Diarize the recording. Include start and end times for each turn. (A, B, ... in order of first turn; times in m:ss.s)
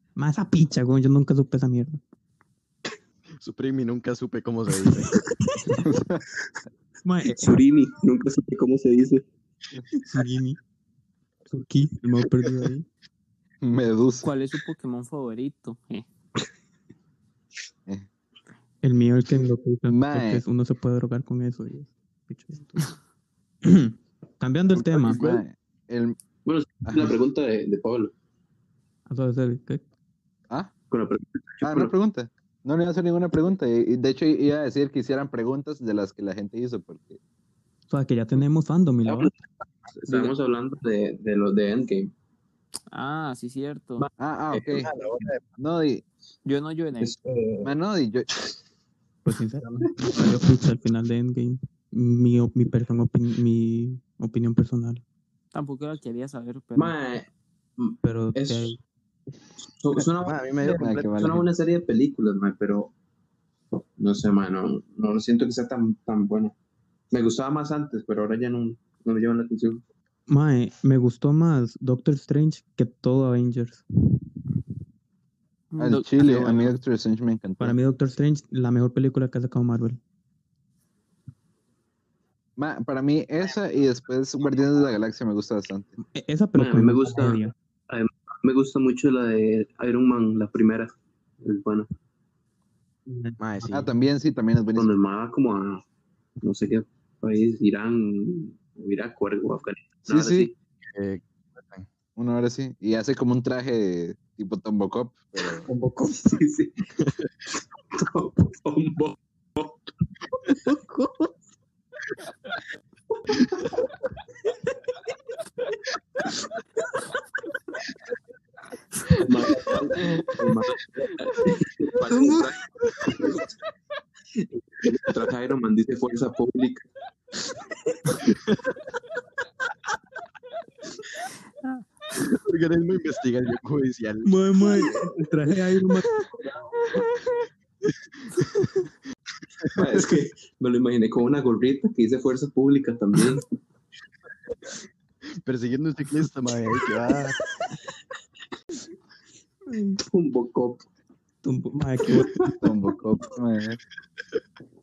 0:00.2-0:02.0 A
0:03.4-0:05.2 B
0:05.5-0:05.9 A
0:05.7-0:06.2 C
0:07.0-0:07.6 A
0:07.4-0:09.2 D
0:09.9-0:10.6 A
0:11.5-0:12.9 A
0:13.6-0:14.3 C
0:14.2-0:16.1 E
0:18.8-0:23.0 A
0:19.9-0:20.4 C
0:23.6-0:25.3 A
0:25.0-0:26.2 C
0:26.5-0:28.1 D
0:26.8-0:27.2 C
0:29.1-0:29.8 A
0:30.9-0:31.9 D
0:31.6-0:37.2 C
0:37.9-0:39.3 A
0:39.1-0:39.3 D
0:39.9-0:42.1 D
0:40.1-0:40.3 E
0:42.9-0:44.1 E
0:44.0-0:44.9 D
0:44.2-0:44.9 C
0:44.8-0:45.4 B
0:45.6-0:46.0 C
0:46.4-0:47.1 E
0:47.0-0:47.7 D
0:47.6-0:48.3 C
0:49.2-0:55.0 A
0:49.7-0:50.2 D
0:55.5-0:57.0 E
0:56.8-0:58.8 D
0:58.0-0:58.8 A
0:59.6-1:02.9 D
1:00.2-1:01.4 B
1:00.6-1:01.4 C
1:04.0-1:06.6 D
1:07.1-1:09.8 D
1:10.3-1:13.8 A
1:15.7-1:16.8 E
1:15.8-1:17.8 C
1:17.6-1:20.0 A
1:22.6-1:26.0 C
1:26.0-1:27.5 A
1:26.6-1:31.9 D
1:33.1-1:33.4 A
1:33.4-1:33.9 B
1:33.7-1:34.9 C
1:34.7-1:35.8 D
1:36.4-1:40.6 D
1:40.1-1:40.5 C
1:40.9-1:41.9 B
1:42.2-1:45.7 C
1:45.7-1:46.8 D
1:47.9-1:49.8 D
1:50.6-1:51.3 A
1:59.1-2:02.7 D
2:04.7-2:06.8 D
2:08.3-2:08.6 B
2:12.2-2:14.3 B
2:14.2-2:16.2 A
2:19.8-2:23.5 D
2:19.8-2:20.1 C
2:25.4-2:27.4 B
2:29.7-2:30.0 A
2:30.0-2:30.9 D
2:31.4-2:32.5 A
2:32.1-2:32.4 D
2:32.4-2:33.8 C